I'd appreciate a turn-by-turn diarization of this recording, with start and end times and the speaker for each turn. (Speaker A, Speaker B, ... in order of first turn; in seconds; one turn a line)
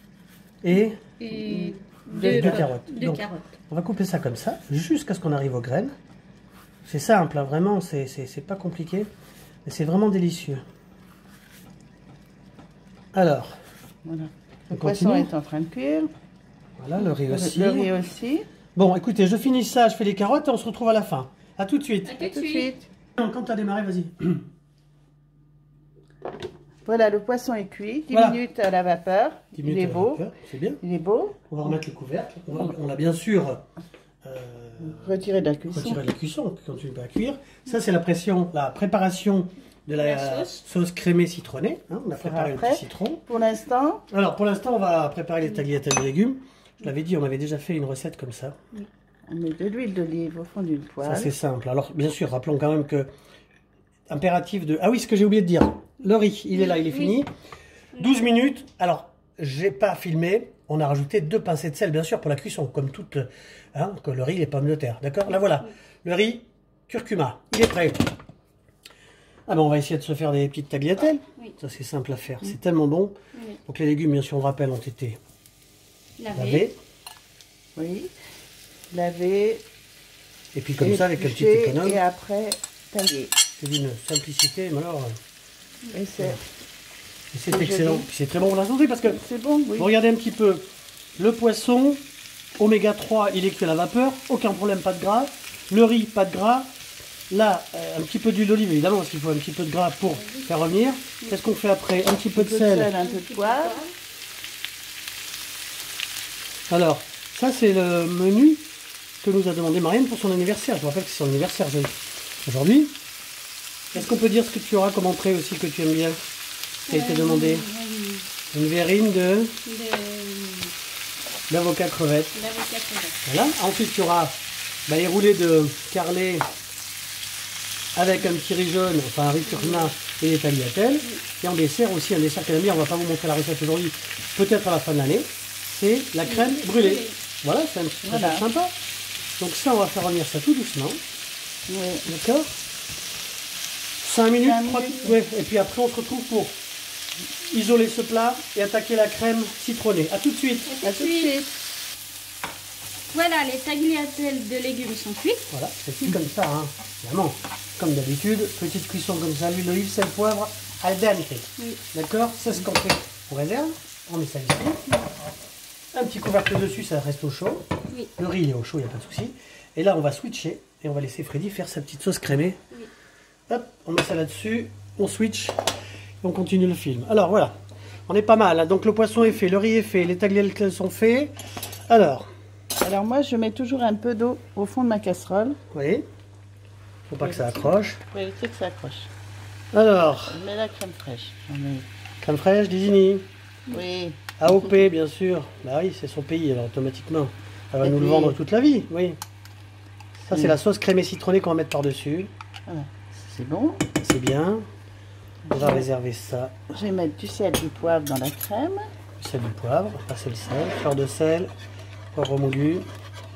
Speaker A: 0.6-1.0
Speaker B: 1.2-3.5
Speaker C: 1.3-2.7
Speaker A: 2.2-5.9
Speaker A: 6.8-9.1
Speaker A: 9.6-10.6
Speaker A: 13.1-13.6
Speaker C: 14.0-16.1
Speaker A: 14.7-15.3
Speaker A: 16.8-17.9
Speaker C: 17.1-18.4
Speaker A: 18.7-22.2
Speaker B: 22.0-22.7
Speaker C: 22.2-22.9
Speaker A: 23.2-24.4
Speaker C: 26.8-30.2
Speaker A: 28.1-28.4
Speaker A: 29.5-30.8
Speaker C: 30.8-31.4
Speaker A: 31.5-33.6
Speaker A: 34.2-35.1
Speaker C: 34.8-36.0
Speaker A: 35.7-43.2
Speaker B: 39.9-40.6
Speaker C: 42.2-44.0
Speaker A: 44.1-48.5
Speaker C: 49.3-51.3
Speaker A: 51.0-53.1
Speaker A: 54.1-57.3
Speaker B: 56.5-57.2
Speaker A: 58.0-68.0
Speaker B: 58.0-58.2
Speaker A: 69.5-75.2
Speaker B: 73.3-73.6
Speaker B: 76.2-76.7
Speaker A: 76.3-76.8
Speaker C: 77.8-78.1
Speaker C: 78.9-79.6
Speaker A: 80.5-82.0
Speaker C: 80.8-83.3
Speaker A: 83.6-85.2
Speaker C: 85.9-86.4
Speaker A: 87.3-89.2
Speaker C: 87.5-88.1
Speaker C: 89.0-89.9
Speaker A: 89.8-90.7
Speaker A: 91.2-92.0
Speaker A: 92.6-96.7
Speaker A: 97.3-102.9
Speaker B: 100.1-100.5
Speaker C: 102.3-103.8
Speaker B: 102.8-103.9
Speaker A: 106.7-108.6
Speaker A: 109.2-112.9
Speaker A: 113.9-116.2
Speaker B: 116.9-118.2
Speaker A: 116.9-117.7
Speaker A: 118.5-119.6
Speaker B: 119.6-120.7
Speaker A: 121.5-122.4
Speaker B: 122.3-123.2
Speaker A: 123.2-124.3
Speaker A: 124.9-126.5
Speaker A: 128.0-138.7
Speaker B: 129.4-129.9
Speaker B: 136.2-137.2
Speaker C: 138.0-138.4
Speaker A: 139.4-141.0
Speaker C: 141.7-142.1
Speaker A: 142.1-142.5
Speaker A: 144.0-146.5
Speaker C: 144.4-145.2
Speaker A: 147.5-150.7
Speaker B: 150.7-151.3
Speaker C: 150.8-151.5
Speaker B: 153.1-155.5
Speaker A: 155.5-164.8
Speaker A: 165.9-172.6
Speaker A: 173.5-175.6
Speaker A: 176.2-177.6
Speaker A: 178.1-181.3
Speaker A: 181.9-182.3
Speaker C: 182.8-185.6
Speaker A: 185.7-186.1
Speaker A: 187.1-188.0
Speaker C: 187.2-189.1
Speaker A: 189.7-190.4
Speaker C: 190.3-191.9
Speaker A: 192.2-193.2
Speaker C: 193.7-194.3
Speaker A: 194.4-199.2
Speaker C: 197.8-198.4
Speaker A: 200.3-202.3
Speaker C: 200.3-200.6
Speaker C: 202.7-203.9
Speaker A: 204.0-204.7
Speaker C: 205.5-205.8
Speaker A: 205.5-206.7
Speaker C: 206.7-208.8
Speaker A: 209.2-211.5
Speaker A: 212.1-212.9